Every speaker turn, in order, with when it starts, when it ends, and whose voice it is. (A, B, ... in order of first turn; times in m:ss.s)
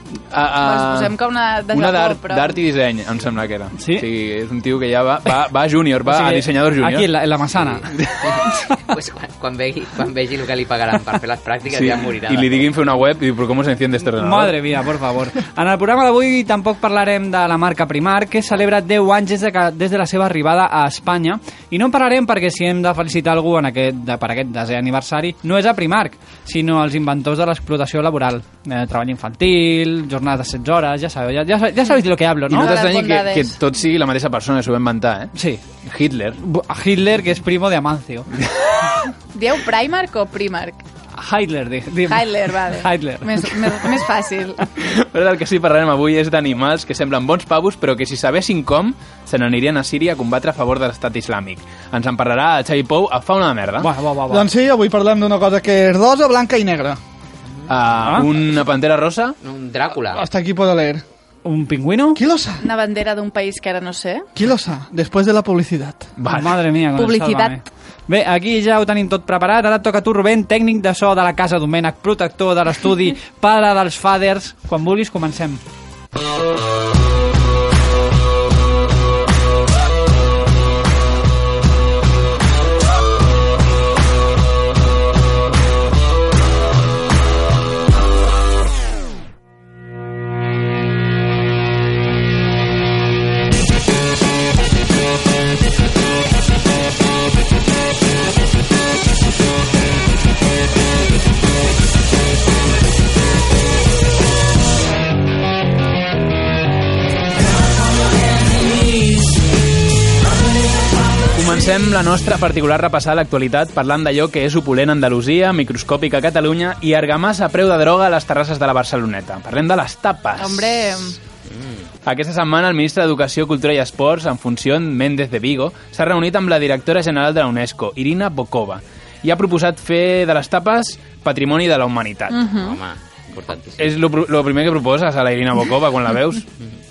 0:00.3-0:01.2 A
0:00.6-0:02.5 B
0:01.7-0:07.1 A
0:03.8-0:04.0 C
0:06.0-0:07.9 C
0:07.9-0:08.4 A
0:08.2-0:12.7 D
0:11.7-0:14.6 A
0:14.2-0:32.8 C
0:32.5-0:35.3 A
0:32.5-0:33.6 B
0:35.3-0:35.6 C
0:35.8-0:36.4 A
0:36.4-0:38.3 C
0:39.3-0:40.8 B
0:41.2-0:43.9 C
0:42.1-0:44.7 B
0:44.8-0:53.9 A
0:53.8-0:54.5 C
0:54.3-0:57.0 E
0:57.7-0:59.4 A
0:59.4-1:00.2 D
1:00.0-1:01.0 E
1:01.4-1:02.2 C
1:02.1-1:02.6 E
1:02.6-1:04.3 B
1:04.4-1:06.0 E
1:06.2-1:06.6 A
1:06.3-1:15.6 C
1:07.0-1:07.6 B
1:51.3-2:01.2 A
2:00.4-2:01.2 B
2:02.0-2:12.5 A
2:12.3-2:12.8 B
2:12.6-2:14.0 D
2:13.8-2:16.5 A